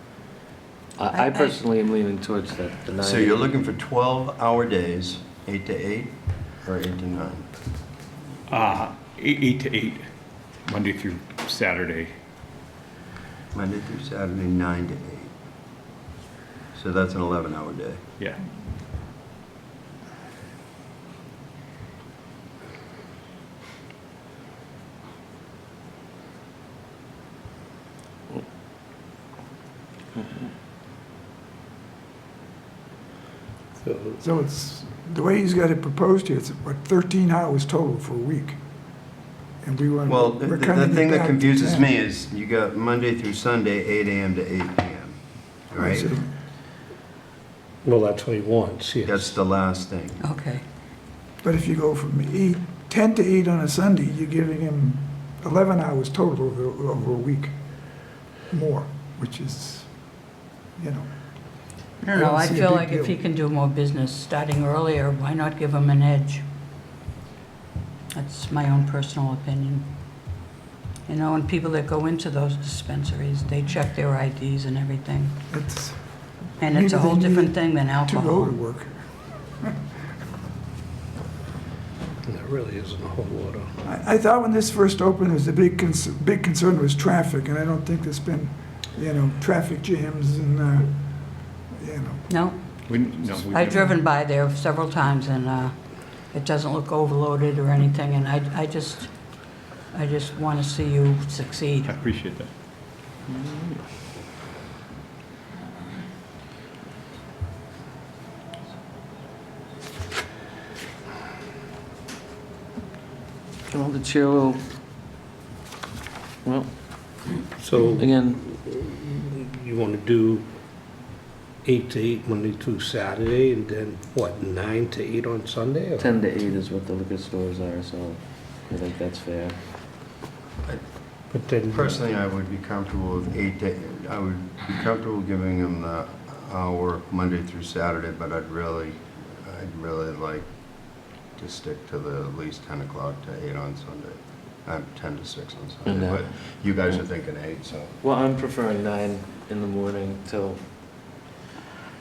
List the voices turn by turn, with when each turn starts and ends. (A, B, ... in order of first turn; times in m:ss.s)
0:01.0-0:03.5 A
0:01.1-0:01.6 B
0:03.0-0:07.5 C
0:08.5-0:10.0 D
0:10.7-0:12.1 D
0:13.5-0:15.3 C
0:16.7-0:18.0 C
0:33.8-0:34.2 E
0:34.2-0:38.6 F
0:39.6-0:41.9 F
0:40.1-0:45.2 C
0:45.7-0:46.1 C
0:45.8-0:46.3 F
0:47.8-0:49.3 E
0:49.1-0:50.2 C
0:50.2-0:50.6 B
0:51.4-0:57.5 F
0:58.5-1:00.1 F
1:00.8-1:01.1 F
1:02.0-1:06.4 B
1:02.1-1:03.2 F
1:08.2-1:09.9 B
1:11.1-1:15.3 B
1:15.5-1:19.7 F
1:16.6-1:18.6 B
1:22.2-1:23.7 E
1:23.8-1:32.2 F
1:32.3-1:32.9 B
1:32.8-1:34.0 D
1:33.5-1:35.7 B
1:36.3-1:41.9 B
1:41.8-1:42.5 D
1:43.3-1:43.8 A
1:53.7-1:54.6 A
1:56.4-1:56.7 A
1:57.6-2:00.4 E
1:58.0-1:58.4 A
2:01.6-2:06.1 E
2:06.0-2:09.6 A
2:11.3-2:12.0 E
2:11.7-2:20.4 C
2:21.4-2:27.9 C
2:25.8-2:26.2 A
2:28.0-2:30.6 A